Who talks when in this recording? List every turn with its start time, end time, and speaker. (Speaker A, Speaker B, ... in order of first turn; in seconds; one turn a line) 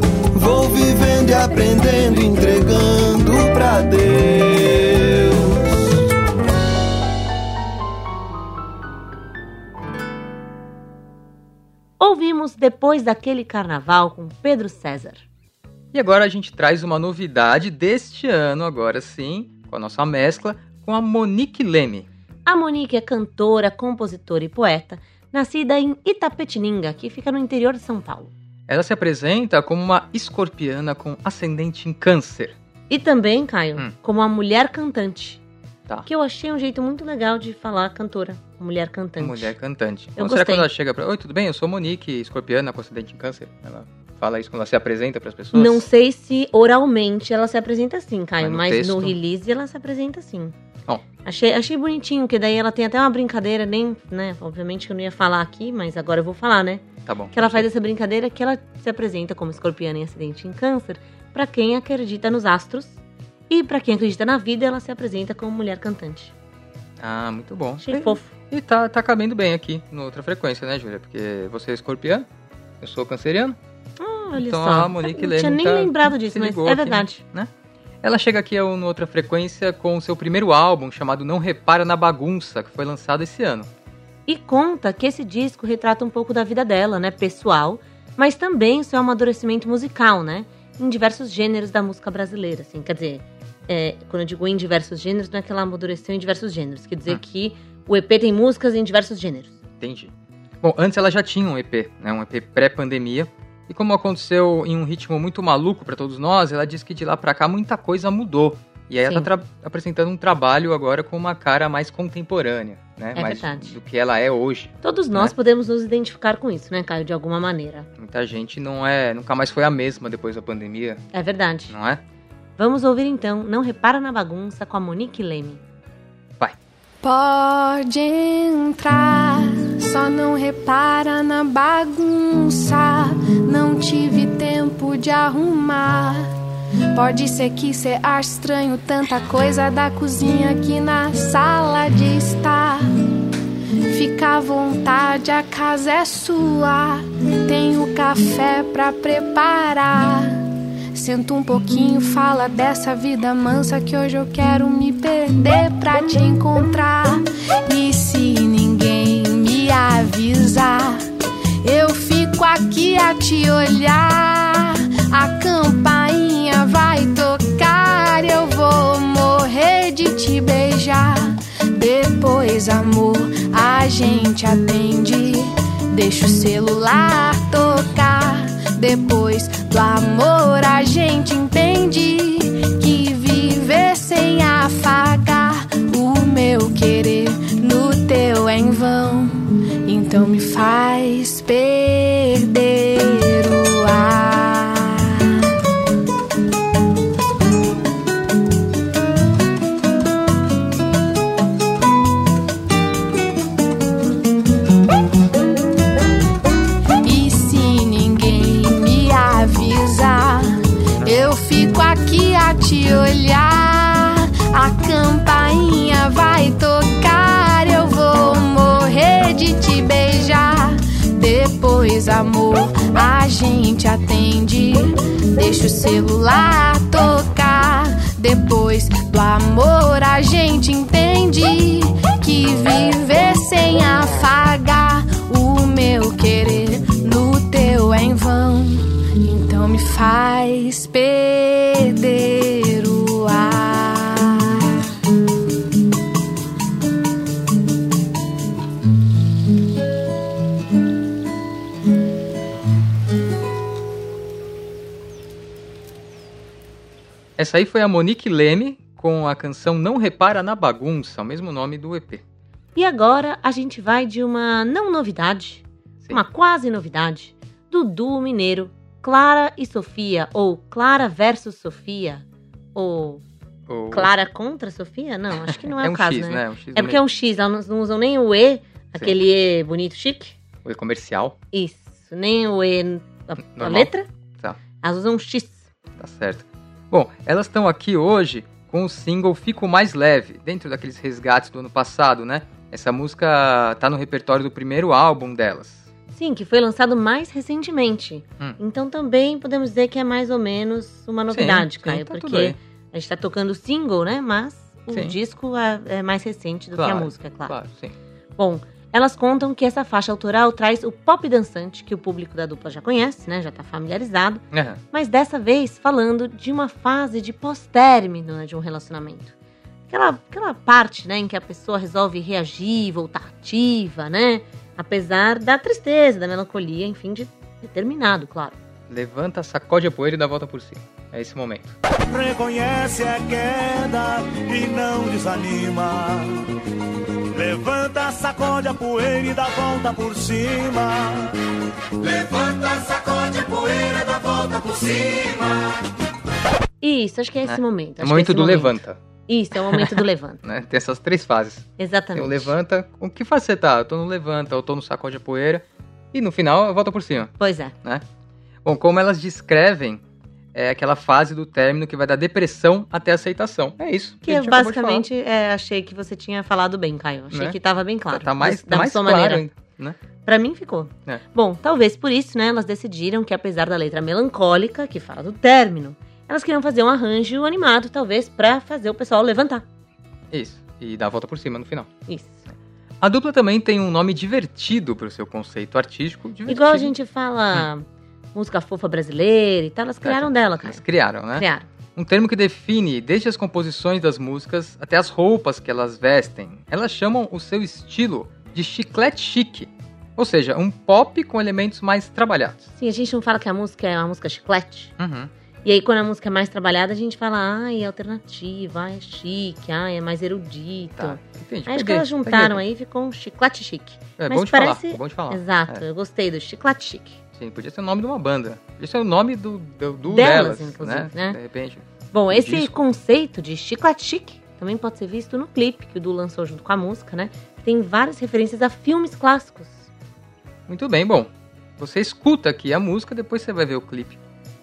Speaker A: 0.3-5.8
Speaker B: 12.0-15.2
Speaker C: 15.9-22.1
Speaker B: 22.5-28.3
Speaker C: 28.7-32.6
Speaker B: 32.9-35.4
Speaker B: 36.1-39.5
Speaker C: 39.2-45.8
Speaker B: 40.2-40.7
Speaker B: 45.5-50.5
Speaker C: 48.4-49.1
Speaker B: 51.2-62.9
Speaker C: 57.1-57.6
Speaker B: 63.5-66.3
Speaker C: 67.0-72.3
Speaker B: 67.8-68.3
Speaker C: 72.8-73.6
Speaker B: 74.0-77.2
Speaker C: 74.4-77.5
Speaker C: 78.0-83.7
Speaker B: 84.3-99.5
Speaker C: 99.8-115.3
Speaker B: 113.2-113.7
Speaker B: 114.8-117.9
Speaker C: 118.0-121.0
Speaker B: 121.1-121.7
Speaker C: 121.7-122.0
Speaker B: 122.6-125.6
Speaker D: 127.0-136.3
Speaker D: 136.9-142.9
Speaker D: 143.9-161.0
Speaker D: 161.6-195.4
Speaker D: 207.0-244.8
Speaker C: 257.4-262.2
Speaker B: 262.8-272.2
Speaker B: 272.8-273.2
Speaker C: 273.7-274.1
Speaker B: 273.9-280.4
Speaker C: 275.5-277.0
Speaker C: 280.6-281.4
Speaker B: 281.5-284.1
Speaker C: 283.6-284.6
Speaker B: 284.8-285.6
Speaker C: 286.0-295.9
Speaker B: 296.1-307.6
Speaker C: 301.3-302.6
Speaker C: 304.9-305.1
Speaker C: 306.8-307.9
Speaker B: 308.4-319.3
Speaker C: 314.5-314.8
Speaker B: 319.9-328.6
Speaker C: 328.9-331.8
Speaker E: 332.1-336.5
Speaker E: 337.3-341.3
Speaker E: 342.0-345.6
Speaker B: 346.8-348.7
Speaker C: 347.5-349.0
Speaker B: 349.3-350.4
Speaker C: 350.4-357.3
Speaker B: 351.8-352.5
Speaker B: 357.4-357.7
Speaker C: 358.6-360.0
Speaker C: 360.5-365.0
Speaker B: 364.2-369.4
Speaker C: 368.1-370.0
Speaker B: 370.2-379.6
Speaker C: 380.3-381.9
Speaker B: 382.1-382.3
Speaker C: 383.0-386.9
Speaker B: 386.5-390.8
Speaker C: 390.0-402.6
Speaker B: 391.4-391.6
Speaker B: 402.8-404.9
Speaker C: 405.0-405.3
Speaker B: 405.6-417.2
Speaker C: 411.0-412.6
Speaker C: 414.2-415.8
Speaker C: 417.4-422.7
Speaker B: 420.1-421.4
Speaker B: 422.1-429.9
Speaker C: 430.7-434.2